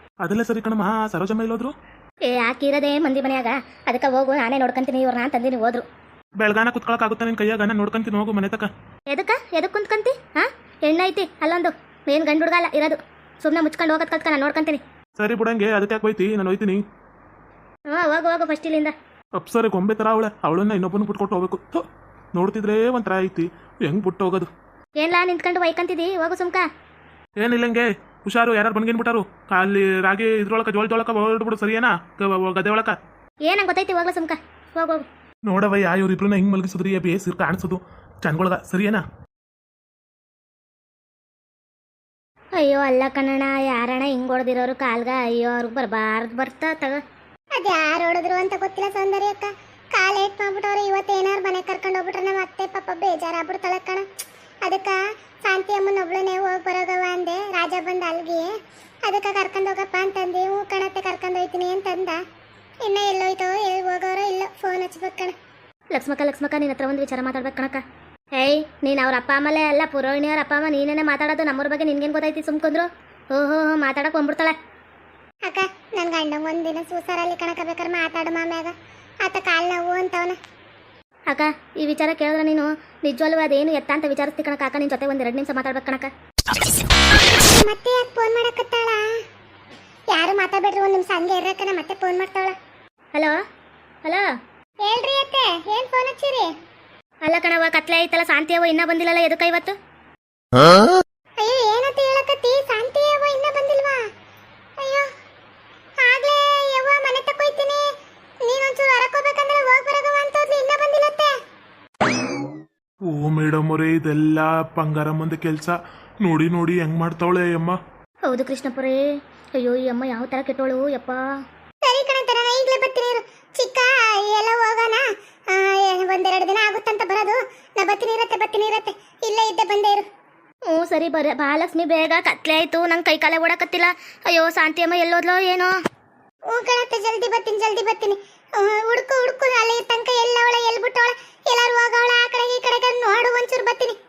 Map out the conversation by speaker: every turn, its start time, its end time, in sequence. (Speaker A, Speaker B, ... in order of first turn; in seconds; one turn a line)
Speaker A: 0.2-1.7
Speaker B: 2.2-5.8
Speaker A: 6.4-8.7
Speaker B: 9.1-14.8
Speaker A: 15.2-16.8
Speaker B: 17.9-18.9
Speaker A: 19.4-24.5
Speaker B: 25.0-26.7
Speaker A: 27.4-33.0
Speaker B: 33.5-35.1
Speaker A: 35.5-39.0
Speaker B: 42.6-47.0
Speaker C: 47.6-54.1
Speaker C: 54.6-58.5
Speaker C: 59.0-62.2
Speaker C: 62.8-65.3
Speaker B: 65.9-67.8
Speaker B: 68.4-74.6
Speaker C: 75.5-80.4
Speaker B: 81.3-86.1
Speaker C: 87.3-89.1
Speaker C: 90.1-92.6
Speaker C: 94.8-96.5
Speaker B: 97.2-99.8
Speaker C: 101.4-104.0
Speaker C: 104.8-105.1
Speaker C: 106.0-107.9
Speaker C: 108.4-111.4
Speaker A: 113.1-117.8
Speaker B: 118.3-119.0
Speaker B: 119.6-121.2
Speaker C: 121.8-130.1
Speaker B: 130.7-135.7
Speaker C: 136.5-144.0